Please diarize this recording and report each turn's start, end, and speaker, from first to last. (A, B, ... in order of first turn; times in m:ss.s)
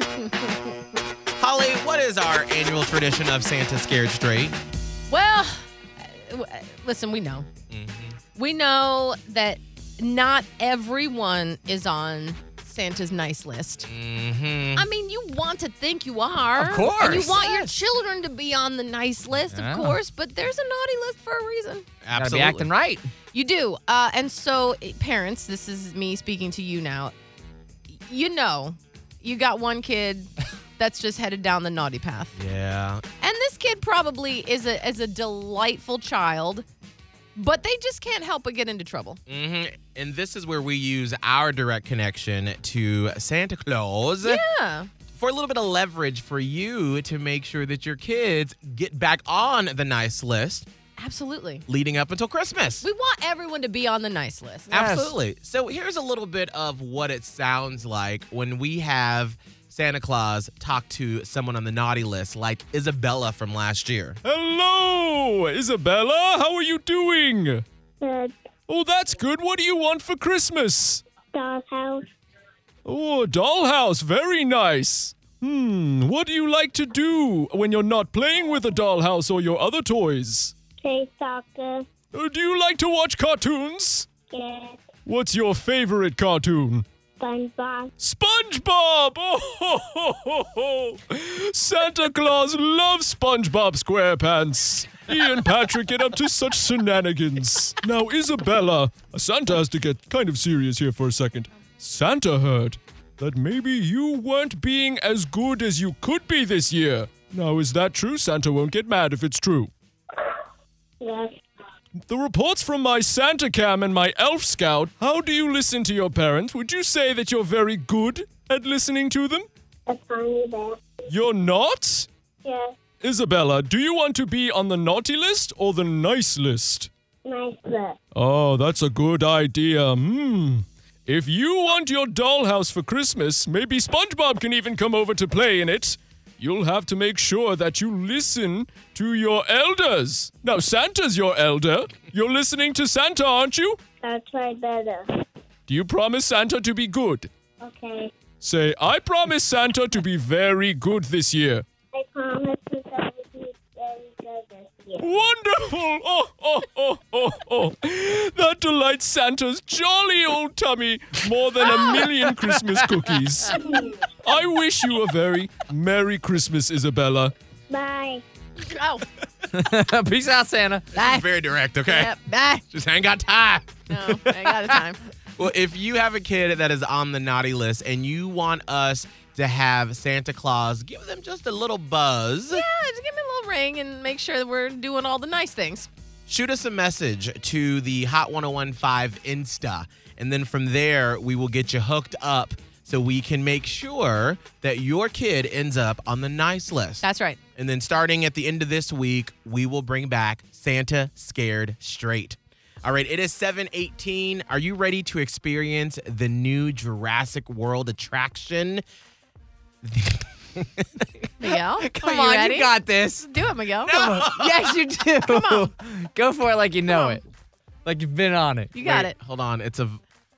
0:00.1-0:00.7 A
0:01.4-0:04.6 B
0:05.1-0:07.5 A
0:07.7-0:08.2 B
0:08.4-0:13.9 A
0:13.9-0:14.9 B
0:14.8-0:21.9 A
0:16.6-0:17.7 C
0:19.5-0:20.0 C
0:22.0-0:22.7 B
0:22.1-0:23.1 C
0:23.3-0:27.2 A
0:27.9-0:32.3 A
0:32.4-0:33.0 B
0:33.2-0:36.7 A
0:37.4-0:39.2 A
0:39.3-0:44.4 B
0:44.2-0:44.9 A
0:45.1-0:50.7 B
0:51.0-0:51.6 A
0:51.7-0:52.9 B
0:52.8-0:55.1 A
0:54.7-1:04.2 B
0:54.8-0:55.1 C
1:04.2-1:07.6 D
1:08.0-1:08.4 E
1:08.7-1:11.0 D
1:11.3-1:12.0 E
1:12.8-1:20.5 D
1:20.8-1:21.9 E
1:22.1-1:24.1 D
1:24.3-1:24.8 E
1:25.1-1:26.8 D
1:27.2-1:27.9 E
1:28.0-1:49.7 D
1:51.0-1:51.3 E
1:52.1-1:59.5 D
1:59.9-2:00.8 E
2:01.1-2:02.1 D
2:02.4-2:02.7 E
2:03.0-2:06.9 D
2:07.3-2:08.0 E
2:08.2-2:23.8 D
2:24.0-2:25.1 E
2:25.7-2:27.3 D
2:27.6-2:28.1 E
2:28.4-2:31.6 D
2:31.9-2:35.1 E
2:35.0-2:43.6 D
2:41.6-2:43.6 C
2:41.6-2:41.9 A
2:43.5-2:44.0 E
2:44.2-2:47.3 D
2:47.7-2:48.2 E
2:48.6-2:49.0 A
2:49.5-2:51.2 C
2:50.9-2:52.1 B
2:51.9-2:52.6 A
2:52.7-2:53.8 B
2:53.9-2:55.0 A
2:55.4-3:02.6 B
3:02.5-3:05.9 A
3:06.3-3:17.0 B
3:17.0-3:17.4 A
3:17.6-3:28.8 B
3:29.8-3:31.3 B
3:31.4-3:34.2 A
3:31.6-3:37.2 C
3:33.8-3:34.8 B
3:35.1-3:35.7 A
3:36.9-3:37.2 A
3:37.8-3:38.7 C
3:38.7-3:39.2 A
3:38.8-3:40.0 B